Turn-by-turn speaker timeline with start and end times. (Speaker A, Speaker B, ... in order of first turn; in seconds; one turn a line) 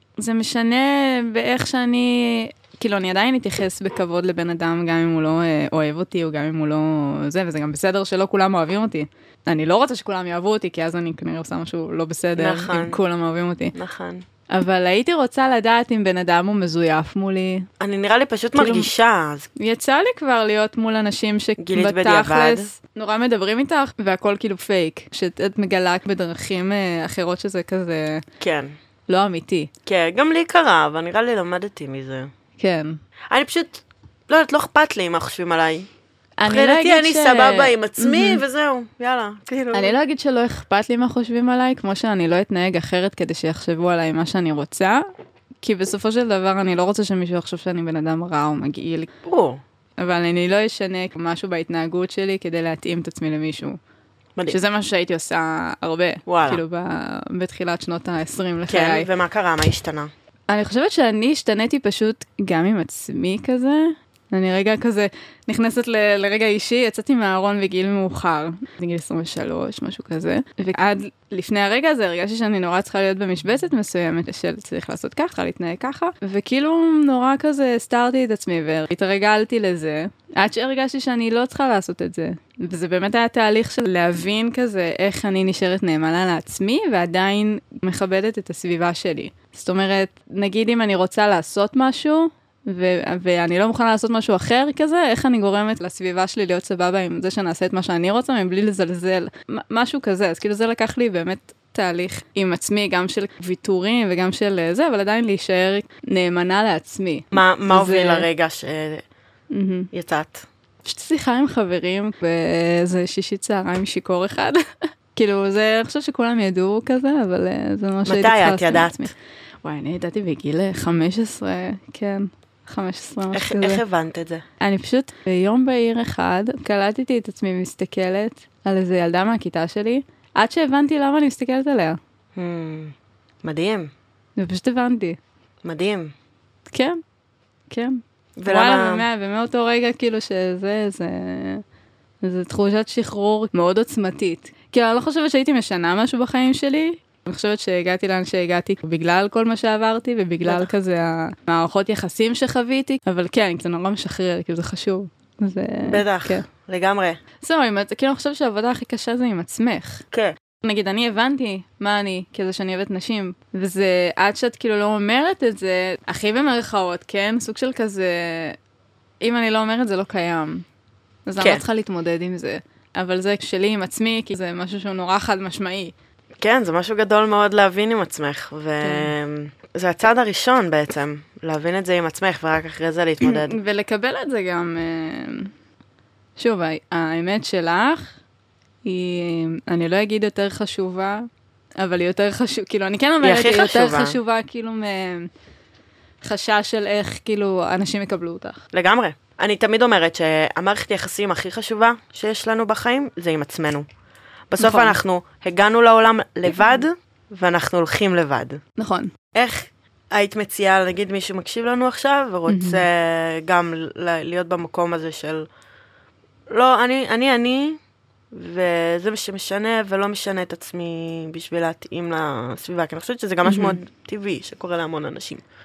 Speaker A: 0.2-13.7
Speaker B: 12.3-13.0
Speaker B: 13.7-14.2
Speaker A: 14.5-17.7
Speaker B: 17.8-19.5
Speaker A: 18.5-18.9
Speaker A: 19.6-28.2
Speaker B: 21.6-22.7
Speaker B: 28.4-28.7
Speaker A: 29.1-29.7
Speaker B: 29.9-32.3
Speaker A: 32.6-33.0
Speaker B: 33.3-35.9
Speaker A: 36.4-38.4
Speaker B: 36.5-40.0
Speaker A: 39.7-45.0
Speaker A: 45.6-49.1
Speaker B: 49.2-49.6
Speaker A: 50.0-53.8
Speaker A: 54.5-59.1
Speaker B: 56.3-56.6
Speaker B: 58.7-60.1
Speaker A: 60.5-108.3
Speaker B: 107.3-109.0
Speaker A: 109.5-109.9
Speaker B: 109.9-110.5
Speaker A: 110.8-119.1
Speaker B: 118.0-119.1
Speaker A: 119.6-123.8
Speaker B: 123.3-124.4
Speaker A: 124.6-132.0
Speaker B: 132.3-133.9
Speaker A: 134.4-135.2
Speaker B: 135.6-136.1
Speaker A: 136.7-137.0
Speaker A: 137.7-141.6
Speaker B: 138.4-139.0
Speaker A: 142.2-156.4
Speaker B: 150.4-150.7
Speaker B: 155.8-157.2
Speaker A: 157.4-160.0
Speaker A: 160.6-168.6
Speaker A: 169.2-170.6
Speaker A: 171.2-175.9
Speaker B: 176.4-183.5
Speaker A: 178.8-179.1
Speaker A: 183.2-185.5
Speaker A: 186.4-188.1
Speaker A: 188.8-191.3
Speaker A: 191.8-195.3
Speaker B: 193.2-194.2
Speaker A: 196.2-198.6
Speaker B: 198.7-203.9
Speaker B: 204.5-208.6
Speaker A: 204.6-205.0
Speaker A: 208.8-209.1
Speaker B: 209.3-215.5
Speaker A: 212.5-212.8
Speaker B: 216.5-217.8
Speaker B: 218.3-225.4
Speaker A: 223.4-223.8